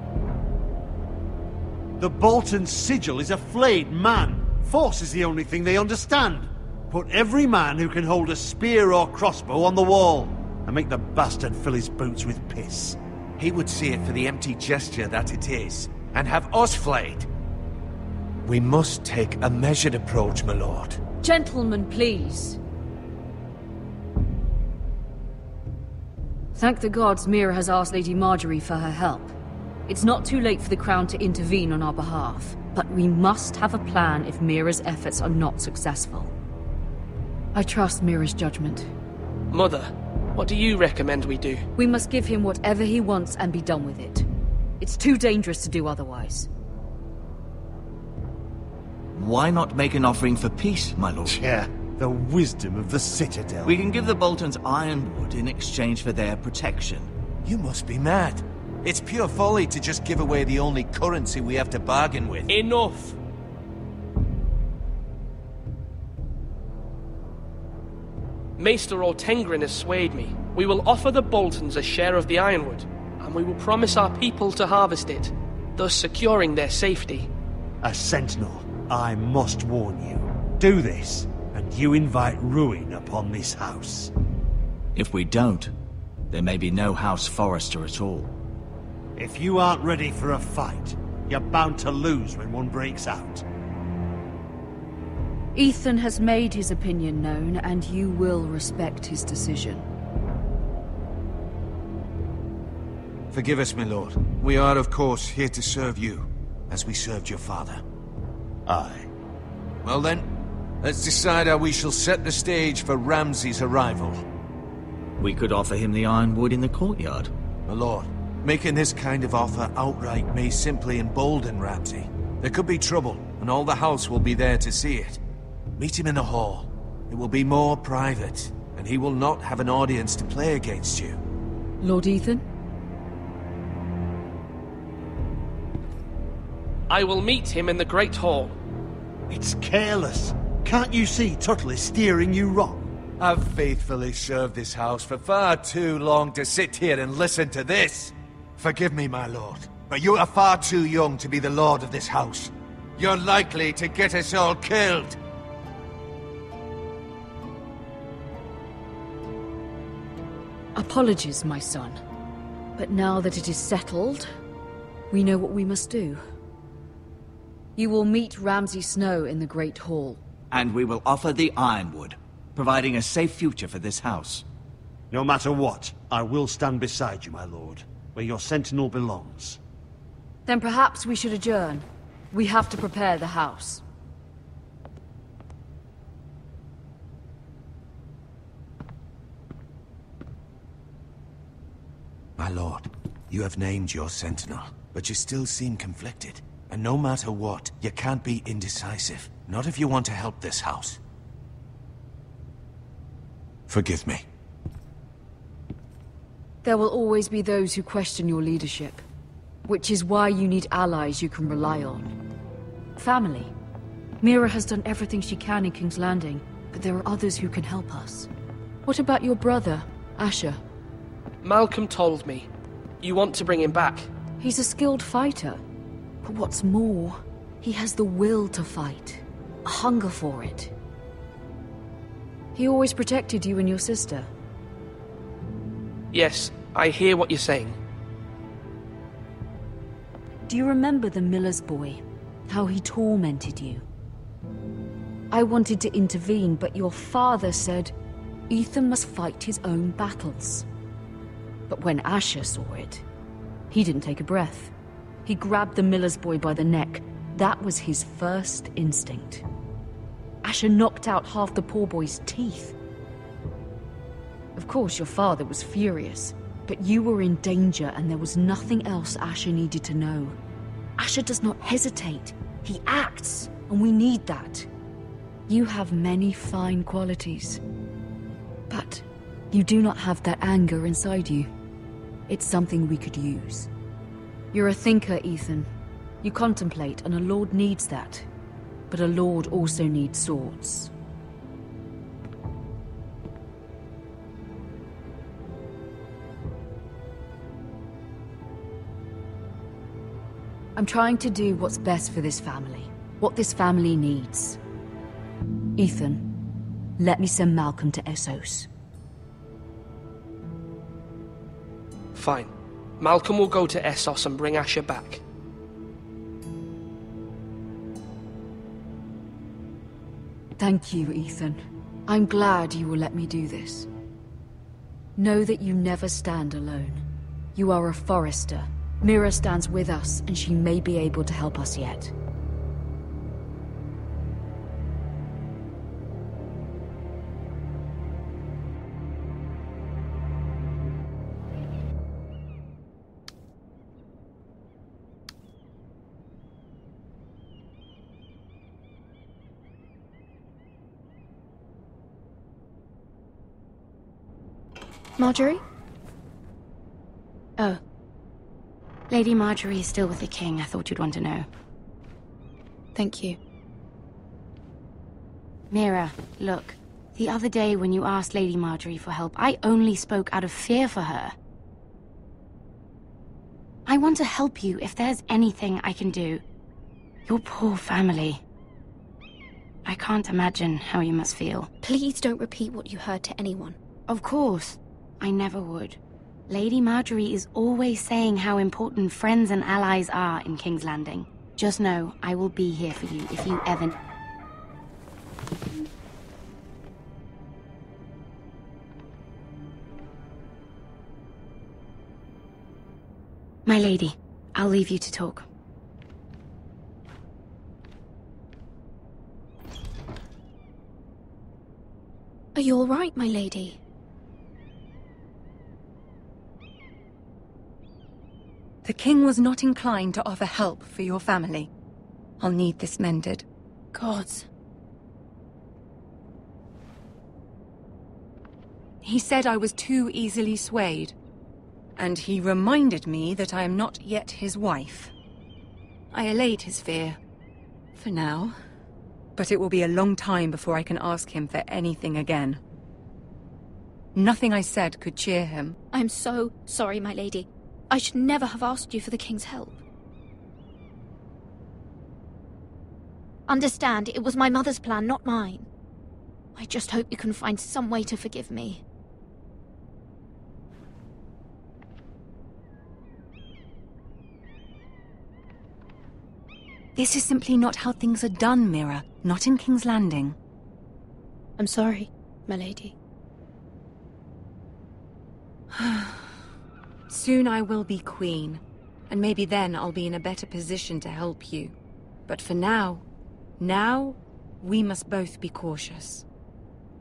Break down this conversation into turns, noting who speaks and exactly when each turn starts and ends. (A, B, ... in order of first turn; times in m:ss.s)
0:02.0-0:13.0 A
0:13.4-0:17.3 B
0:18.4-0:21.0 B
0:21.2-0:22.6 C
0:26.5-0:29.3 C
0:29.9-0:36.3 C
0:37.5-0:38.9 C
0:39.5-0:41.6 D
0:41.8-0:44.2 C
0:44.8-0:46.5 C
0:49.1-0:51.4 E
0:51.3-0:53.8 A
0:53.6-0:57.1 E
0:57.4-1:02.5 B
1:02.5-1:03.2 D
1:08.6-1:17.3 D
1:17.8-1:24.1 A
1:24.9-1:25.7 E
1:26.3-1:28.3 E
1:29.2-1:33.4 A
1:35.5-1:39.8 C
1:43.3-1:47.8 B
1:49.8-1:50.3 B
1:50.8-1:54.2 B
1:55.2-1:57.3 E
1:57.7-2:05.2 B
2:05.8-2:11.2 B
2:11.8-2:12.4 C
2:16.9-2:18.6 D
2:19.3-2:22.9 A
2:23.2-2:35.2 B
2:40.8-2:42.0 C
2:42.8-2:44.3 C
2:45.1-2:46.2 C
2:47.8-2:50.2 C
2:50.5-2:54.4 E
2:55.1-2:59.6 A
3:00.4-3:03.8 C
3:12.4-3:21.0 B
3:23.7-3:24.2 B
3:26.6-3:29.0 C
3:29.6-3:32.1 C
3:33.0-3:33.5 C
3:34.2-3:38.3 C
3:38.8-3:40.6 C
3:41.4-3:42.5 D
3:43.0-3:44.1 D
3:44.4-3:45.6 C
3:46.2-3:50.7 C
3:52.5-3:54.3 C
3:56.1-3:57.8 D
4:00.5-4:03.8 C
4:05.3-4:07.9 C
4:08.5-4:10.6 C
4:11.7-4:13.0 C
4:13.7-4:14.7 C
4:15.2-4:19.4 C
4:20.4-4:22.7 C
4:24.6-4:30.4 C
4:31.0-4:34.7 C
4:35.5-4:37.6 C
4:38.7-4:41.5 C
4:42.3-4:43.7 C
4:44.5-4:45.7 C
4:46.2-4:48.2 C
4:48.9-4:50.9 C
5:00.8-5:04.6 C
5:05.8-5:06.3 C
5:07.0-5:08.7 C
5:12.1-5:15.2 D
5:20.6-5:23.9 C
5:25.2-5:27.0 C
5:27.6-5:32.1 C
5:55.2-5:55.6 F
5:59.1-6:01.5 G
6:03.0-6:03.4 F
6:05.7-6:11.3 G
6:13.8-6:16.4 G
6:17.2-6:18.4 G
6:19.8-6:21.7 G
6:21.8-6:23.8 F
6:24.1-6:34.0 G
6:43.6-6:45.4 G
6:52.5-6:53.8 F
6:58.8-7:01.7 H
7:02.4-7:03.4 H
7:03.9-7:04.4 F
7:09.0-7:11.1 H
7:12.0-7:15.1 H
7:16.1-7:17.2 H
7:17.9-7:18.6 H
7:19.4-7:22.6 H
7:24.1-7:25.8 H
7:25.9-7:29.8 F
7:33.5-7:35.7 F
7:36.6-7:38.8 F
7:46.9-7:50.4 H
7:51.6-7:52.9 F
7:55.7-7:56.3 H
7:57.1-8:01.7 H
8:02.3-8:03.0 H
8:03.6-8:06.2 H